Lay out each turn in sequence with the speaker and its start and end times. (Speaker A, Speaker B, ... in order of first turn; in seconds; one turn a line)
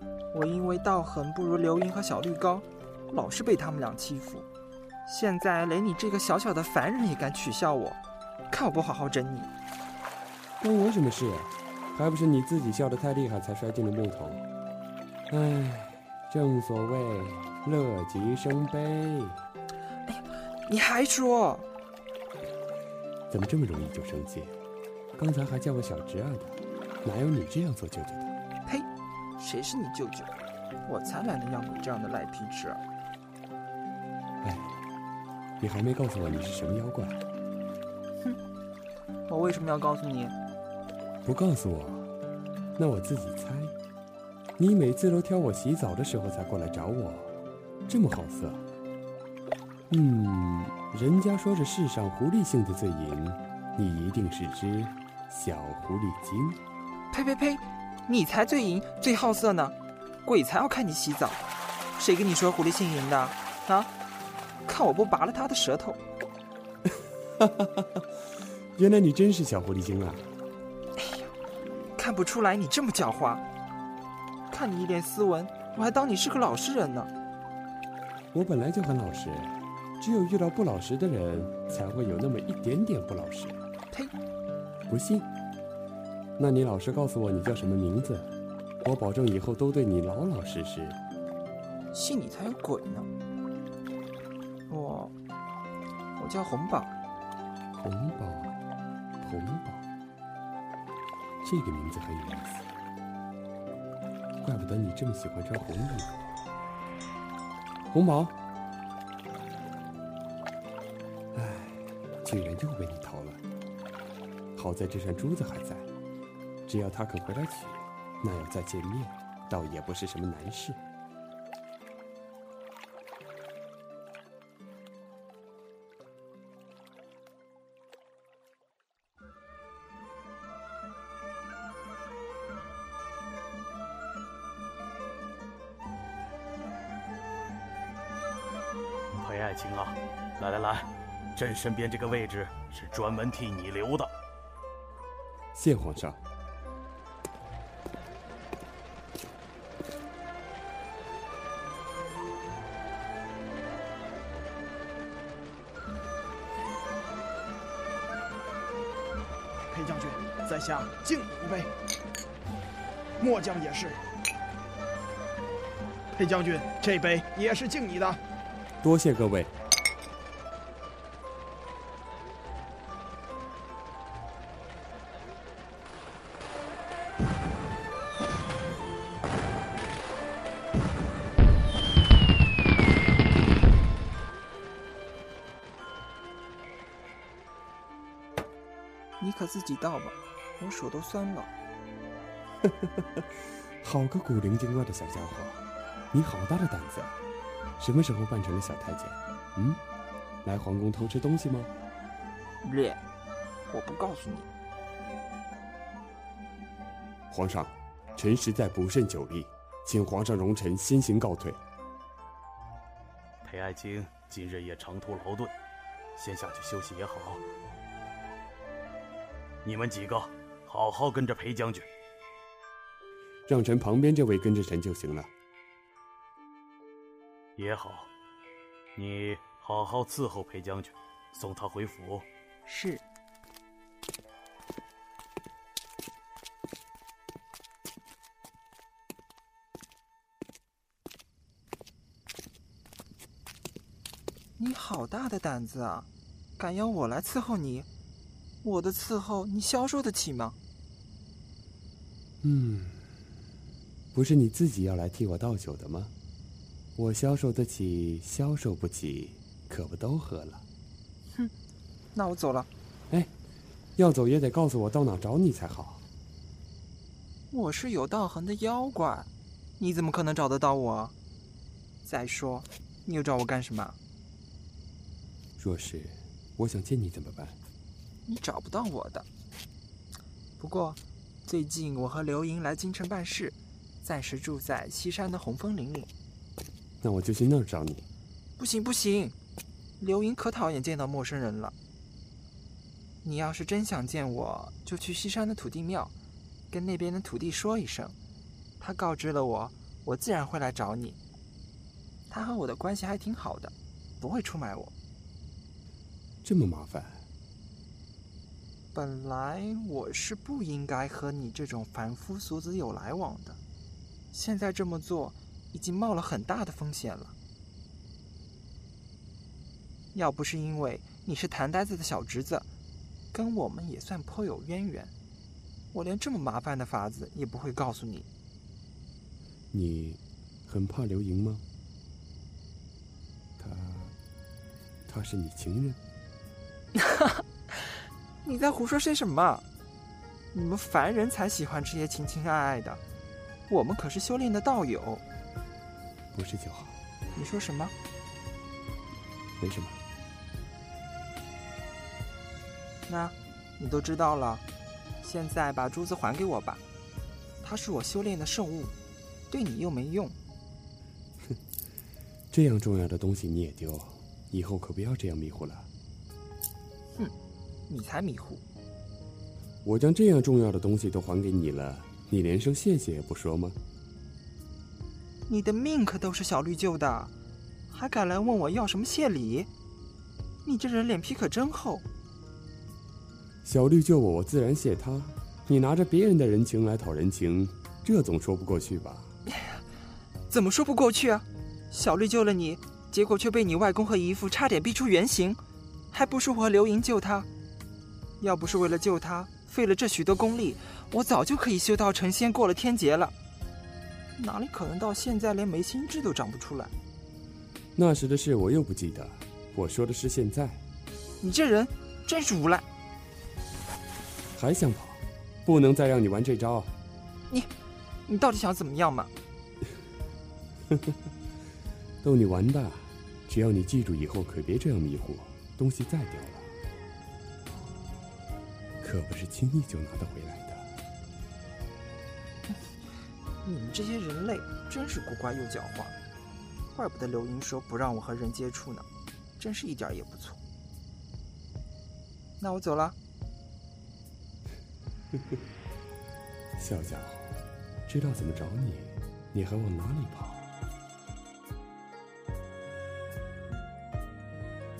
Speaker A: 0.3-4.5
Speaker A: 5.0-8.0
Speaker A: 8.5-9.5
Speaker B: 10.6-14.4
Speaker B: 15.3-19.4
Speaker A: 20.1-21.6
Speaker B: 23.3-24.6
Speaker B: 25.2-28.3
Speaker A: 28.6-30.3
Speaker A: 30.9-32.8
Speaker B: 34.4-34.8
Speaker B: 35.6-37.2
Speaker A: 39.3-40.3
Speaker B: 41.2-42.1
Speaker B: 42.8-43.8
Speaker B: 44.6-47.4
Speaker B: 47.9-48.6
Speaker B: 49.9-56.6
Speaker A: 57.1-61.4
Speaker A: 62.0-63.9
Speaker A: 64.7-66.0
Speaker B: 67.4-68.0
Speaker B: 68.8-70.3
Speaker A: 71.0-71.3
Speaker A: 72.0-73.4
Speaker A: 74.5-77.1
Speaker B: 78.3-83.6
Speaker B: 84.9-85.3
Speaker B: 86.4-91.0
Speaker A: 91.9-93.1
Speaker A: 94.7-95.1
Speaker A: 96.2-96.9
Speaker B: 97.8-98.6
Speaker B: 99.2-99.8
Speaker B: 101.4-102.7
Speaker B: 104.4-106.2
Speaker B: 107.9-108.3
Speaker B: 111.3-113.4
Speaker B: 114.5-115.9
Speaker B: 116.7-120.8
Speaker C: 139.1-144.1
Speaker B: 145.5-146.2
Speaker D: 159.6-161.7
Speaker D: 163.2-164.0
Speaker D: 166.2-168.2
Speaker B: 168.8-169.5
Speaker A: 189.2-191.5
Speaker B: 193.8-197.2
Speaker B: 197.8-199.8
Speaker B: 200.4-201.7
Speaker A: 202.6-203.0
Speaker A: 203.7-204.5
Speaker B: 207.3-211.6
Speaker C: 213.4-215.5
Speaker C: 216.2-217.4
Speaker C: 219.6-221.8
Speaker B: 223.5-225.3
Speaker C: 227.6-228.1
Speaker C: 228.9-232.2
Speaker A: 232.7-233.0
Speaker A: 244.6-247.9
Speaker A: 248.6-250.6
Speaker B: 252.4-253.1
Speaker B: 254.1-256.1
Speaker B: 256.9-260.6
Speaker A: 262.1-262.7
Speaker B: 264.0-266.0
Speaker A: 267.5-269.3
Speaker A: 269.8-271.1
Speaker A: 272.0-273.9
Speaker B: 275.6-277.6
Speaker A: 278.3-279.2
Speaker A: 280.6-286.1
Speaker B: 287.0-288.1
Speaker A: 288.6-289.4
Speaker A: 290.0-291.7
Speaker A: 293.2-296.1
Speaker A: 296.7-298.1
Speaker A: 298.8-301.2
Speaker A: 302.3-304.9
Speaker B: 306.4-307.2
Speaker A: 308.9-313.6
Speaker A: 314.3-317.3
Speaker A: 320.1-322.6
Speaker A: 323.3-325.1
Speaker A: 325.9-328.3
Speaker B: 329.7-331.6
Speaker B: 333.6-334.1
Speaker B: 335.1-336.0
Speaker A: 337.0-337.3
Speaker A: 338.4-339.6
Speaker A: 340.5-343.0
Speaker A: 343.7-345.2
Speaker B: 346.3-347.0
Speaker A: 347.3-347.9
Speaker B: 349.6-350.0
Speaker A: 353.1-354.6
Speaker A: 355.2-356.8
Speaker A: 357.6-358.9
Speaker A: 359.5-360.4
Speaker B: 362.5-365.9
Speaker A: 367.9-368.6
Speaker B: 369.8-373.8
Speaker A: 375.5-377.3
Speaker A: 377.9-379.7
Speaker A: 380.6-382.0
Speaker B: 383.6-389.3
Speaker A: 390.5-395.6
Speaker A: 396.1-397.5
Speaker A: 398.4-403.3
Speaker A: 404.4-406.9
Speaker B: 407.9-410.8
Speaker A: 411.4-412.8
Speaker B: 414.5-416.9
Speaker A: 418.3-419.3
Speaker B: 422.2-426.7
Speaker B: 429.0-430.9
Speaker A: 433.6-436.2
Speaker A: 436.9-439.1
Speaker A: 439.6-440.6
Speaker A: 442.6-443.1
Speaker B: 446.8-450.6